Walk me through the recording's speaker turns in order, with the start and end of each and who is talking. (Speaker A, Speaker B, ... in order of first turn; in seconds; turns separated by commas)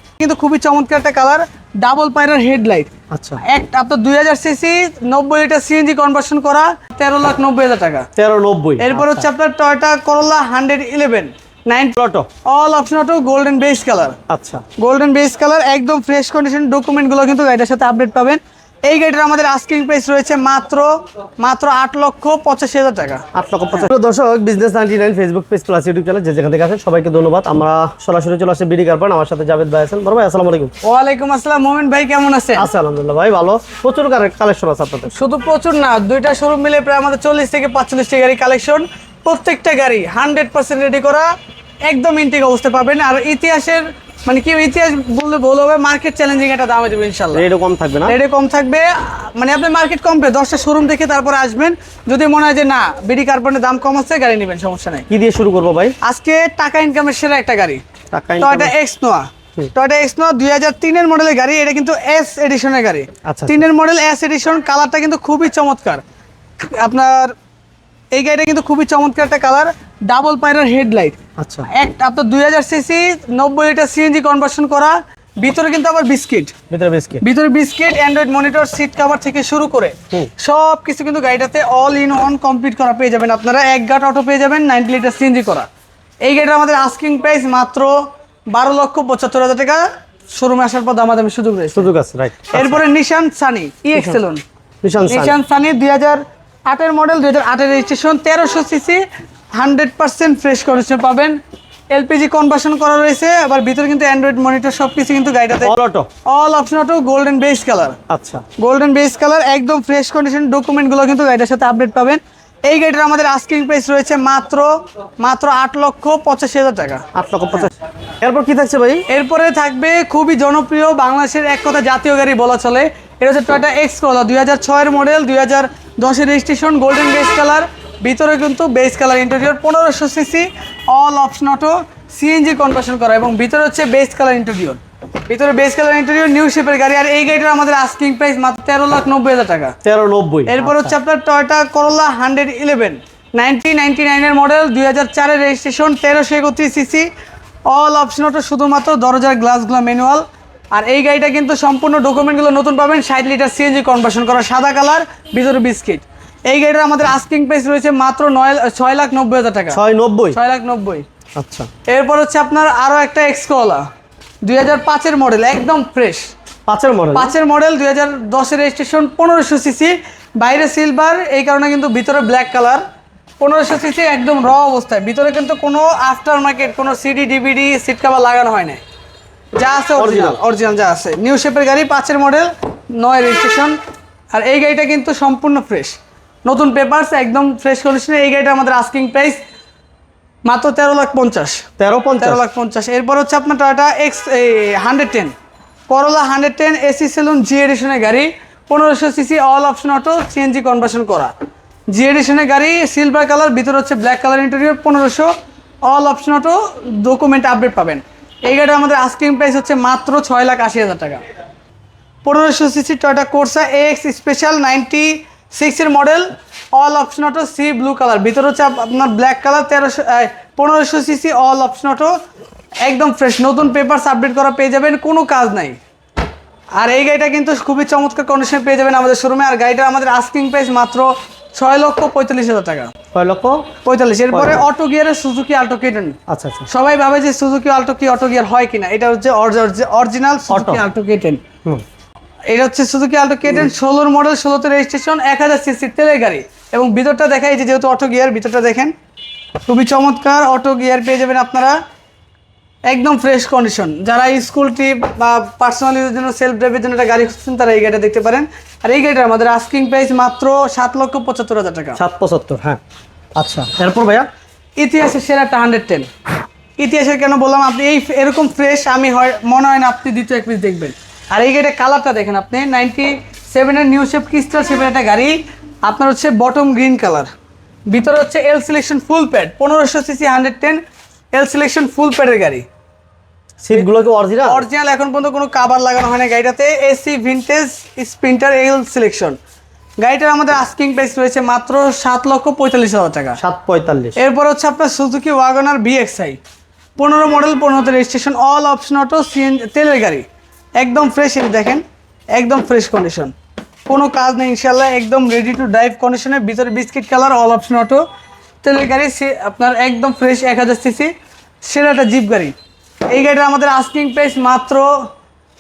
Speaker A: 0.2-2.9, Speaker B: 3.1-3.4, Speaker A: 3.4-8.1, Speaker B: 8.2-9.3, Speaker A: 8.8-14.2, Speaker B: 12.0-12.3, Speaker B: 14.3-14.7, Speaker A: 14.8-23.2, Speaker B: 23.3-30.7, Speaker A: 30.8-32.7, Speaker B: 32.6-35.1, Speaker A: 35.1-41.3, Speaker A: 41.9-47.4, Speaker B: 47.3-48.2, Speaker A: 48.1-55.1, Speaker B: 55.1-56.0, Speaker A: 56.0-57.8, Speaker B: 58.1-58.7, Speaker A: 58.4-66.0, Speaker B: 63.2-63.6, Speaker A: 66.6-67.3, Speaker A: 68.1-76.6, Speaker B: 71.4-71.7, Speaker B: 76.7-77.2, Speaker A: 77.2-85.7, Speaker A: 86.2-88.0, Speaker A: 88.5-91.9, Speaker B: 91.8-92.8, Speaker A: 92.5-94.4, Speaker B: 94.8-95.4, Speaker A: 95.1-101.4, Speaker A: 101.9-105.7, Speaker B: 105.6-106.1, Speaker A: 106.3-108.0, Speaker B: 108.1-108.5, Speaker A: 108.6-117.0, Speaker B: 117.1-119.0, Speaker A: 119.1-139.8, Speaker B: 139.8-141.0, Speaker A: 140.5-147.1, Speaker A: 147.7-159.8, Speaker B: 159.7-160.4, Speaker A: 160.3-161.1, Speaker B: 161.4-161.7, Speaker A: 161.9-163.8, Speaker A: 164.4-166.3, Speaker B: 166.7-167.3, Speaker A: 167.1-172.8, Speaker A: 173.4-178.8, Speaker A: 179.6-183.8, Speaker B: 180.0-180.4, Speaker A: 184.3-189.4, Speaker A: 190.4-191.7, Speaker B: 191.8-192.4, Speaker A: 192.2-195.3, Speaker A: 195.9-201.3, Speaker A: 201.9-205.3, Speaker A: 205.9-211.2, Speaker A: 212.2-222.1, Speaker A: 222.8-225.8, Speaker A: 226.8-232.9, Speaker B: 233.1-233.7, Speaker A: 233.8-236.2, Speaker B: 234.3-234.7, Speaker B: 236.3-236.7, Speaker A: 236.7-241.4, Speaker B: 240.5-240.8, Speaker A: 242.5-248.9, Speaker A: 249.7-251.8, Speaker A: 252.9-262.0, Speaker B: 262.0-262.8, Speaker B: 263.4-264.3, Speaker A: 264.8-266.1, Speaker A: 266.8-277.3, Speaker A: 277.9-280.8, Speaker A: 281.3-282.7, Speaker B: 283.6-284.7, Speaker A: 284.4-289.4, Speaker A: 290.0-293.4, Speaker B: 293.4-294.2, Speaker A: 294.2-296.4, Speaker A: 297.0-300.3, Speaker A: 300.8-303.3, Speaker A: 303.9-308.0, Speaker A: 308.6-311.1, Speaker A: 311.6-312.6, Speaker A: 313.1-314.9